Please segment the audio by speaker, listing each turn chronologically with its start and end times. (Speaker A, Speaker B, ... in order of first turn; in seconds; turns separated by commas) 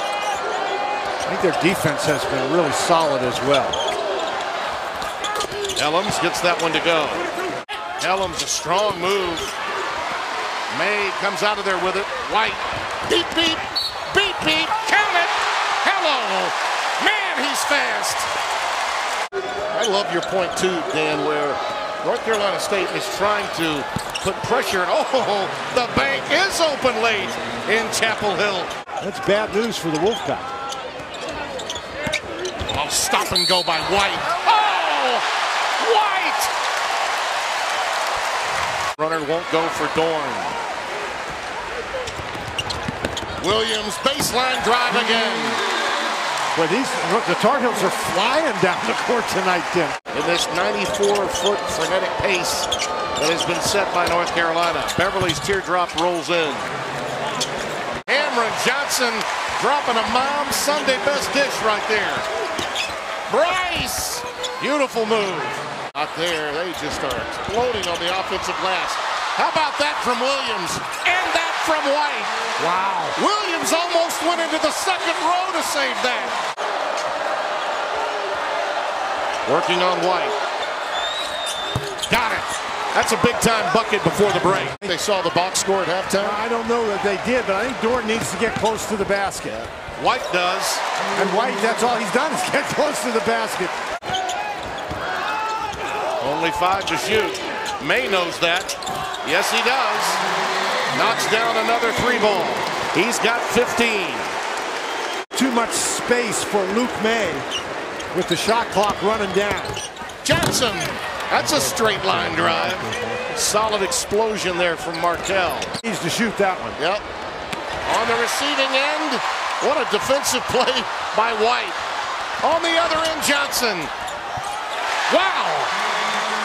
Speaker A: 1.3-3.8, Speaker B: 5.7-7.2, Speaker B: 8.0-9.6, Speaker B: 10.7-18.3, Speaker B: 19.7-28.7, Speaker A: 29.0-30.5, Speaker B: 32.7-35.2, Speaker B: 35.8-36.5, Speaker B: 39.0-40.5, Speaker B: 43.4-45.6, Speaker A: 46.5-50.0, Speaker B: 50.1-56.7, Speaker B: 58.1-62.2, Speaker B: 63.3-72.5, Speaker A: 72.6-73.2, Speaker B: 73.2-76.3, Speaker B: 79.5-80.3, Speaker B: 82.1-86.4, Speaker A: 86.2-89.6, Speaker B: 89.5-90.8, Speaker A: 91.1-93.8, Speaker B: 96.2-100.2, Speaker B: 100.9-104.3, Speaker A: 105.3-107.5, Speaker A: 108.1-109.8, Speaker B: 110.2-115.7, Speaker A: 115.8-116.8, Speaker B: 116.8-117.0, Speaker B: 117.8-121.8, Speaker B: 122.4-123.9, Speaker B: 125.1-125.7